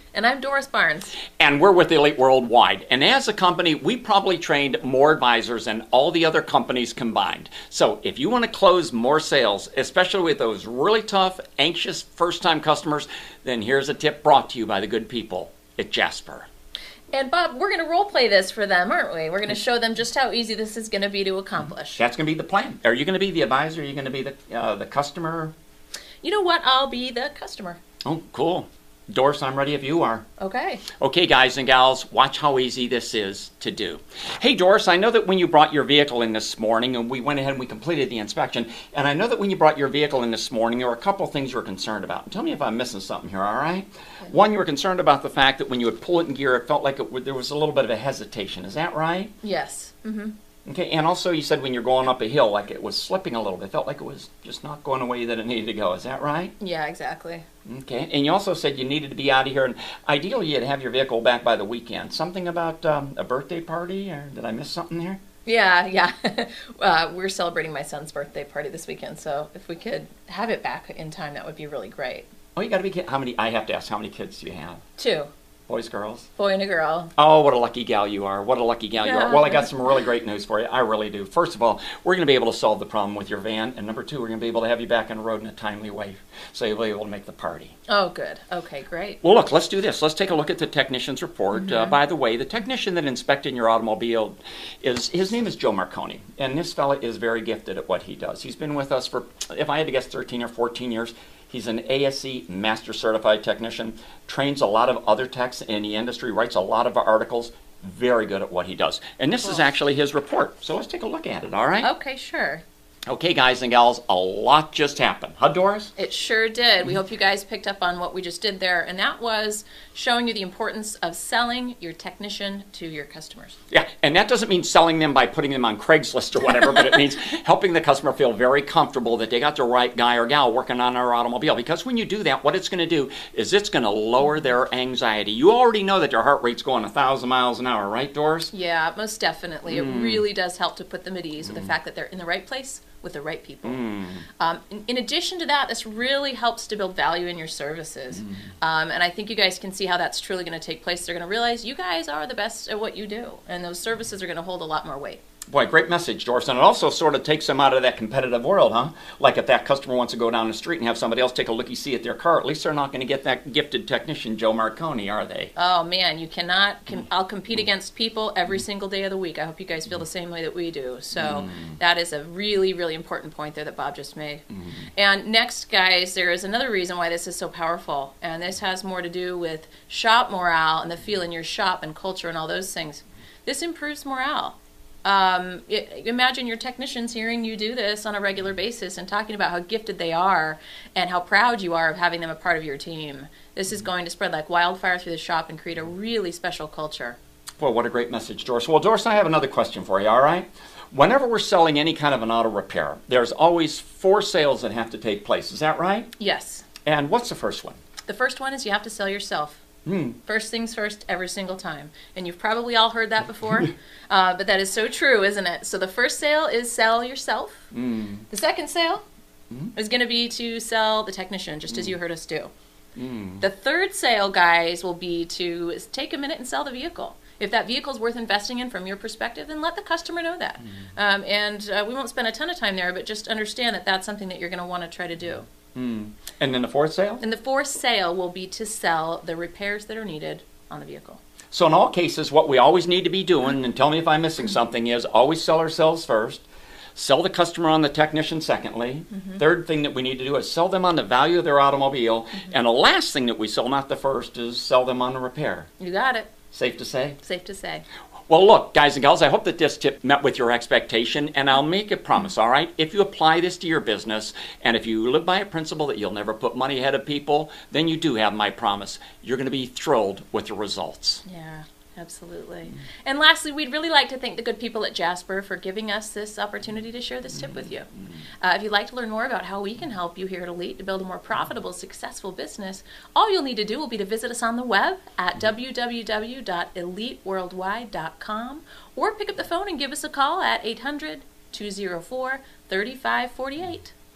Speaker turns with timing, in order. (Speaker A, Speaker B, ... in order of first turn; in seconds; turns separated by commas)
Speaker A: 0.1-1.2, Speaker B: 1.3-16.5, Speaker A: 17.1-22.0, Speaker B: 21.6-25.5, Speaker A: 26.2-27.8, Speaker B: 28.0-30.2, Speaker A: 30.4-30.8, Speaker B: 30.9-49.3, Speaker A: 49.4-50.4, Speaker B: 50.7-56.5, Speaker A: 56.6-57.4, Speaker B: 57.6-65.2, Speaker A: 65.5-72.3, Speaker B: 72.6-74.8, Speaker A: 75.0-75.3, Speaker B: 75.7-76.3, Speaker A: 76.4-77.1, Speaker B: 77.2-87.8, Speaker A: 79.0-79.7, Speaker A: 87.9-89.2, Speaker B: 89.2-111.9, Speaker A: 91.5-92.0, Speaker A: 111.8-112.6, Speaker B: 113.1-115.9, Speaker A: 116.0-123.6, Speaker B: 123.7-138.5, Speaker A: 126.6-127.0, Speaker A: 138.5-143.8, Speaker B: 139.7-140.2, Speaker B: 141.5-141.7, Speaker B: 143.6-144.3, Speaker A: 144.4-155.2, Speaker B: 155.5-165.5, Speaker A: 165.6-174.4, Speaker B: 171.2-171.8, Speaker A: 175.0-197.2, Speaker B: 197.6-206.1, Speaker A: 206.2-206.7, Speaker B: 206.8-207.8, Speaker A: 208.1-209.6, Speaker B: 209.8-210.2, Speaker A: 210.3-217.7, Speaker B: 217.7-218.3, Speaker A: 218.3-219.0, Speaker A: 219.8-222.5, Speaker B: 223.0-223.4, Speaker A: 223.4-235.5, Speaker B: 235.7-237.2, Speaker A: 237.2-241.2, Speaker B: 241.5-246.4, Speaker B: 246.9-255.7, Speaker A: 249.1-249.4, Speaker A: 255.8-256.4, Speaker B: 256.5-257.2, Speaker A: 257.2-257.9, Speaker B: 258.3-271.2, Speaker A: 271.2-277.9, Speaker A: 278.4-293.9